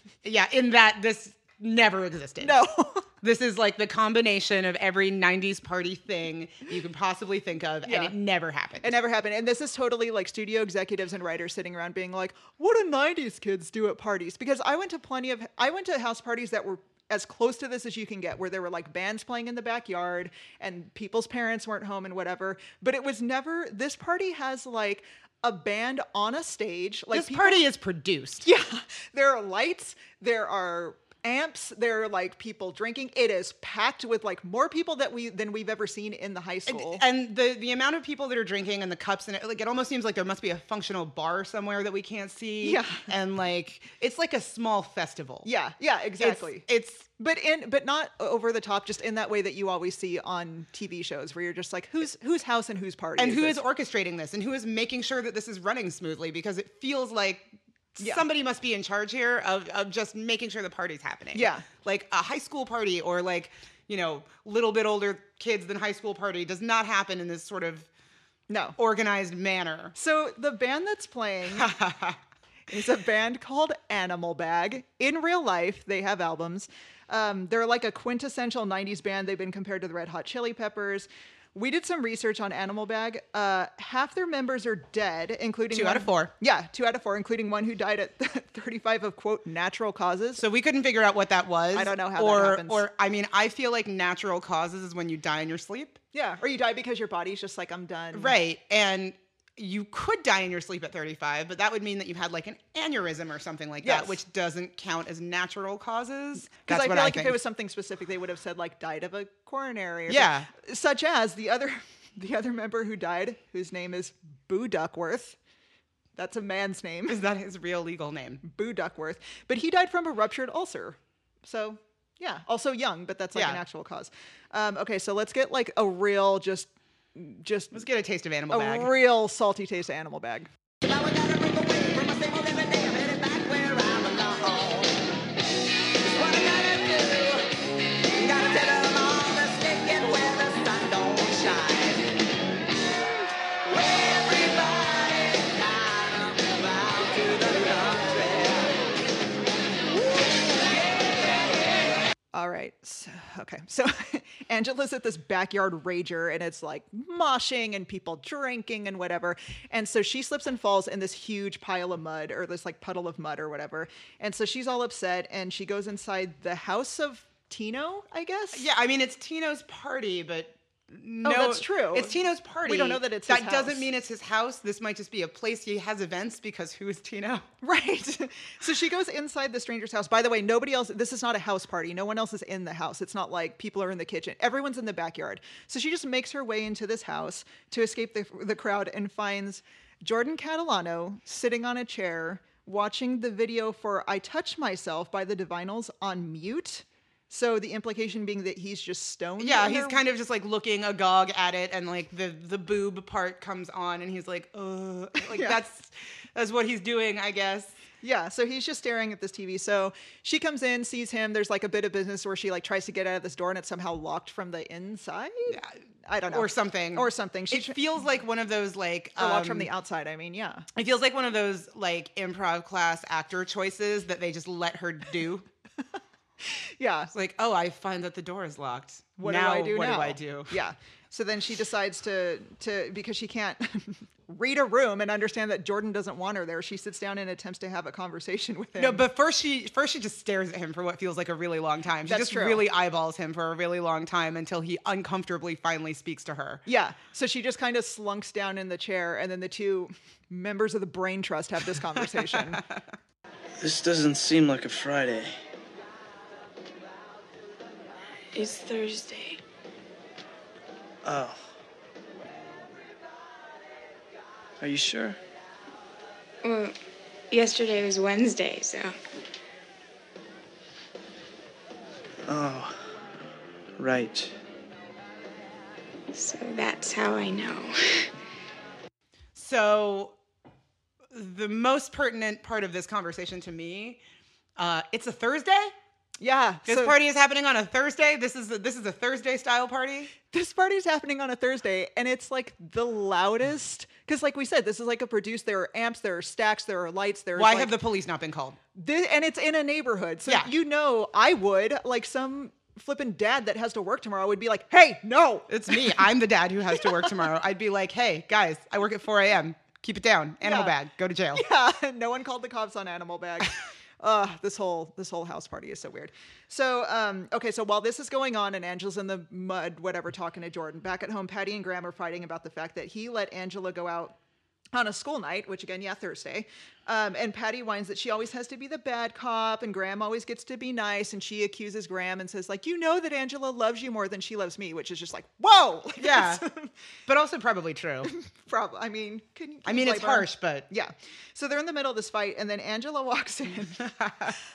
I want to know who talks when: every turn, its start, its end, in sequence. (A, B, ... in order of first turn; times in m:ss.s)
0:00.2-0:02.6 A
0:02.4-0:03.1 B
0:03.2-0:09.0 A
0:07.8-0:08.1 B
0:08.8-0:27.6 B
0:27.1-0:28.4 A
0:28.4-0:37.0 B
0:36.7-0:45.5 A
0:42.6-0:43.0 B
0:45.4-0:46.6 B
0:46.2-0:47.1 A
0:47.2-0:53.6 B
0:53.2-1:07.9 A
0:58.0-0:58.2 B
1:01.3-1:01.7 B
1:08.5-1:08.8 B
1:08.8-1:09.9 A
1:09.9-1:11.7 B
1:11.5-1:12.2 A
1:12.7-1:30.4 B
1:25.7-1:26.3 A
1:30.4-1:36.0 A
1:31.7-1:32.8 B
1:36.1-1:38.3 B
1:38.1-1:47.4 A
1:43.8-1:44.2 B
1:46.6-1:55.4 B
1:50.1-1:50.5 A
1:56.2-1:57.2 B
1:57.1-1:58.4 A
1:58.4-2:07.8 B
2:03.3-2:03.6 A
2:07.7-2:08.9 A
2:08.5-2:10.5 B
2:10.8-2:15.0 C
2:16.0-2:17.5 C
2:18.1-2:22.1 C
2:23.6-2:28.8 C
2:30.0-2:31.6 C
2:32.3-2:48.7 B
2:48.5-2:57.5 A
2:51.2-2:53.9 B
2:57.6-3:20.0 B
3:19.4-3:27.8 A
3:25.3-3:25.6 B
3:28.0-3:37.8 B
3:35.5-3:35.8 A
3:36.3-3:39.7 A
3:39.2-3:40.7 B
3:40.7-3:45.4 A
3:46.5-3:47.1 B
3:47.1-3:50.6 A
3:49.2-3:59.0 B
3:58.8-4:06.6 A
4:02.1-4:02.6 B
4:06.6-4:12.6 B
4:11.9-4:12.8 A
4:13.6-4:15.3 C
4:18.3-4:19.4 D
4:21.0-4:21.4 C
4:24.6-4:25.2 C
4:26.4-4:26.7 D
4:27.3-4:28.9 D
4:32.2-4:32.8 C
4:33.8-4:34.3 C
4:36.1-4:38.1 D
4:39.3-4:40.2 A
4:41.1-4:44.0 A
4:44.6-4:45.7 A
4:46.2-4:47.0 B
4:46.6-4:50.1 A
4:50.3-4:57.8 B
4:57.3-4:58.6 A
4:58.7-5:06.0 B
5:00.2-5:00.5 A
5:05.5-5:11.4 A
5:10.4-5:10.7 B
5:11.3-5:24.2 B
5:24.7-5:36.7 B
5:36.0-5:36.4 A
5:37.0-5:38.1 A
5:38.0-5:43.9 B
5:39.6-5:40.7 A
5:43.8-5:44.3 A